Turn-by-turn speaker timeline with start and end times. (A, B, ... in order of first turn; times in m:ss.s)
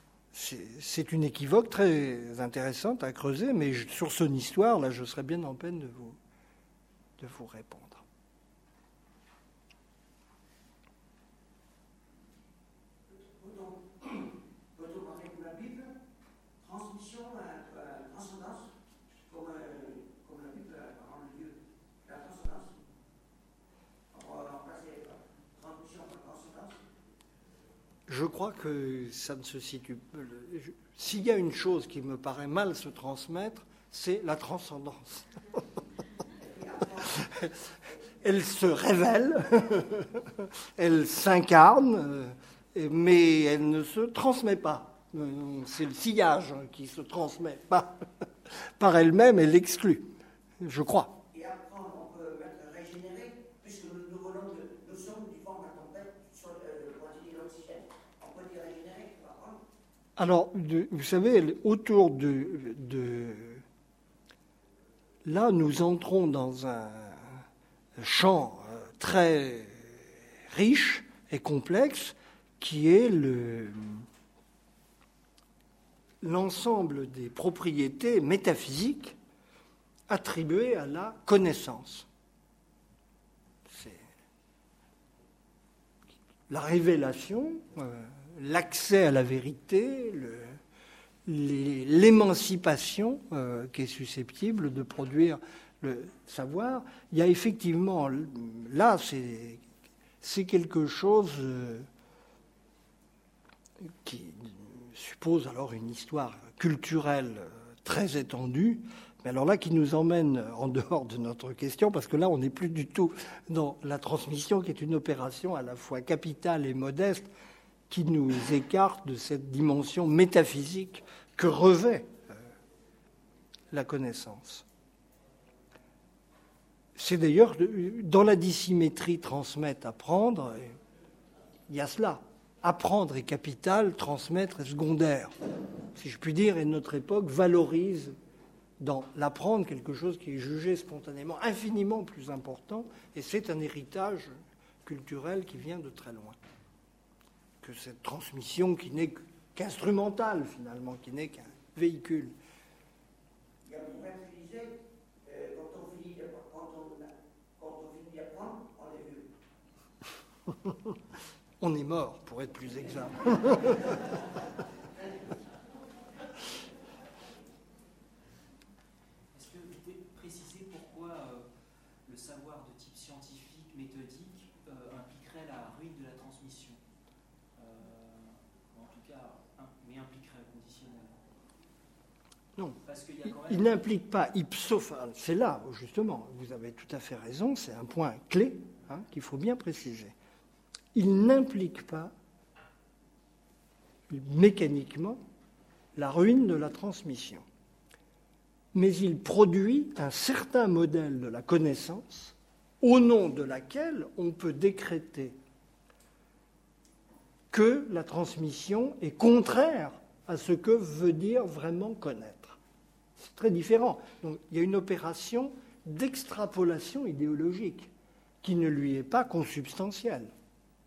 0:00.3-0:06.2 A
0:07.2-0:08.0 A
0:13.2-0:15.9 B
0:16.6-0:18.7 B
0:19.2-0:22.8 B
0:24.1-0:26.8 B
0:28.1-0:35.6 A
0:36.4-0:37.2 B
0:37.0-0:37.6 A
0:38.2-0:51.2 A
0:51.3-0:59.6 B
1:00.2-1:03.6 A
1:05.2-1:07.4 A
1:08.0-1:14.1 A
1:16.2-1:19.2 A
1:20.1-1:22.1 A
1:23.7-1:24.1 A
1:26.5-1:30.6 A
1:31.3-1:39.6 A
1:40.2-1:41.9 A
1:43.8-1:57.3 A
1:57.9-2:02.4 A
2:03.7-2:04.6 A
2:07.0-2:10.8 A
2:11.7-2:15.3 A
2:16.0-2:18.1 A
2:18.8-2:24.3 A
2:24.8-2:26.4 A
2:27.6-2:32.4 A
2:33.6-2:39.3 B
2:41.6-2:44.2 A
2:49.3-2:51.5 C
2:52.0-2:56.8 C
2:57.6-3:01.2 C
3:02.8-3:03.7 C
3:03.3-3:10.2 A
3:10.9-3:12.1 A
3:14.1-3:15.2 A
3:16.0-3:17.4 A
3:18.7-3:25.4 A
3:27.5-3:32.6 A
3:33.2-3:37.9 A
3:38.4-3:40.3 A